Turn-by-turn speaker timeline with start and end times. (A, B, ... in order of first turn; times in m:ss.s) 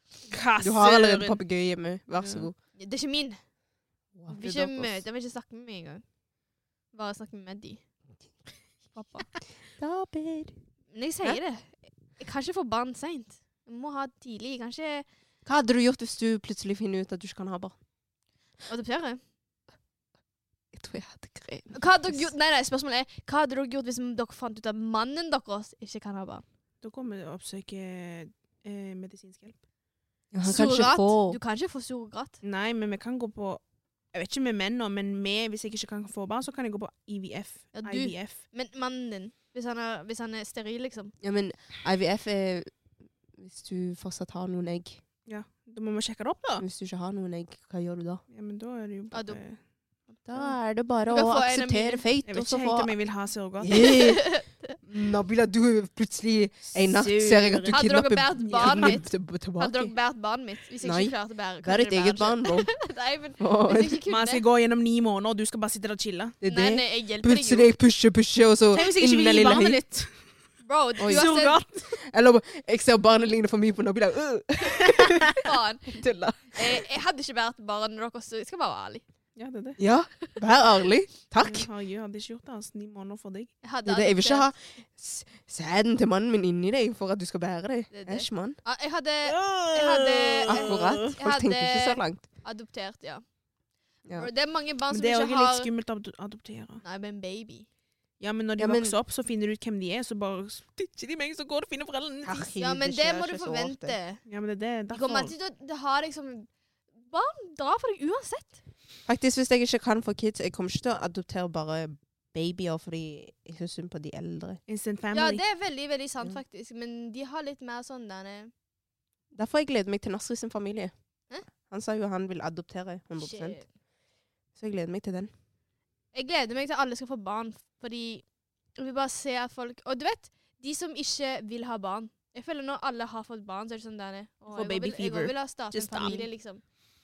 0:00.3-0:01.4 A
0:00.6-0:02.5 B
0:02.2-0:02.5 A
0:02.8-0:03.4 C
0:04.1-0:05.0 B
0:04.3-0:06.0 C
0:06.9-0:07.8 C
0:08.9-0:09.3 C
0:09.8-0:10.6 B
0:10.9-0:15.0 C
0:15.4-0:17.8 B
0:18.7-0:19.2 C
0:20.7-0:22.2 B
0:21.7-0:26.4 C
0:26.8-0:29.5 A
0:30.3-0:31.4 B
0:30.4-0:32.4 C
0:32.4-0:33.6 A
0:34.1-0:38.4 A
0:37.7-0:41.1 C
0:41.2-0:42.7 B
0:43.4-0:45.0 B
0:45.3-0:46.6 A
0:46.6-0:48.2 B
0:48.3-0:49.6 A
0:49.1-0:49.4 C
0:50.2-0:52.9 B
0:51.1-0:52.0 C
0:52.2-0:53.9 A
0:53.6-0:59.9 B
0:53.7-0:54.8 C
0:56.7-0:59.0 A
0:57.7-1:04.4 C
1:00.8-1:02.7 B
1:03.4-1:04.0 B
1:04.1-1:06.4 A
1:06.4-1:09.8 B
1:06.5-1:07.7 C
1:08.7-1:10.2 A
1:10.6-1:11.6 C
1:11.0-1:11.3 B
1:11.0-1:11.8 A
1:11.9-1:15.4 B
1:15.4-1:19.0 C
1:15.9-1:16.8 B
1:19.4-1:19.8 A
1:19.8-1:21.7 B
1:21.4-1:23.5 A
1:23.6-1:24.5 C
1:23.8-1:28.6 B
1:27.9-1:33.2 C
1:29.2-1:31.1 A
1:30.5-1:32.2 B
1:34.1-1:35.7 C
1:34.9-1:36.8 A
1:36.8-1:37.6 C
1:38.2-1:42.5 A
1:38.6-1:38.9 B
1:42.2-1:44.0 B
1:42.6-1:44.2 C
1:44.2-1:45.3 A
1:44.9-1:46.5 C
1:47.1-1:48.6 C
1:49.0-1:54.6 B
1:54.7-1:55.4 A
1:55.1-1:58.5 C
1:59.3-2:00.9 B
2:01.7-2:03.6 B
2:03.2-2:03.6 C
2:04.5-2:05.3 B
2:06.1-2:08.2 C
2:08.8-2:16.6 C
2:14.5-2:16.3 A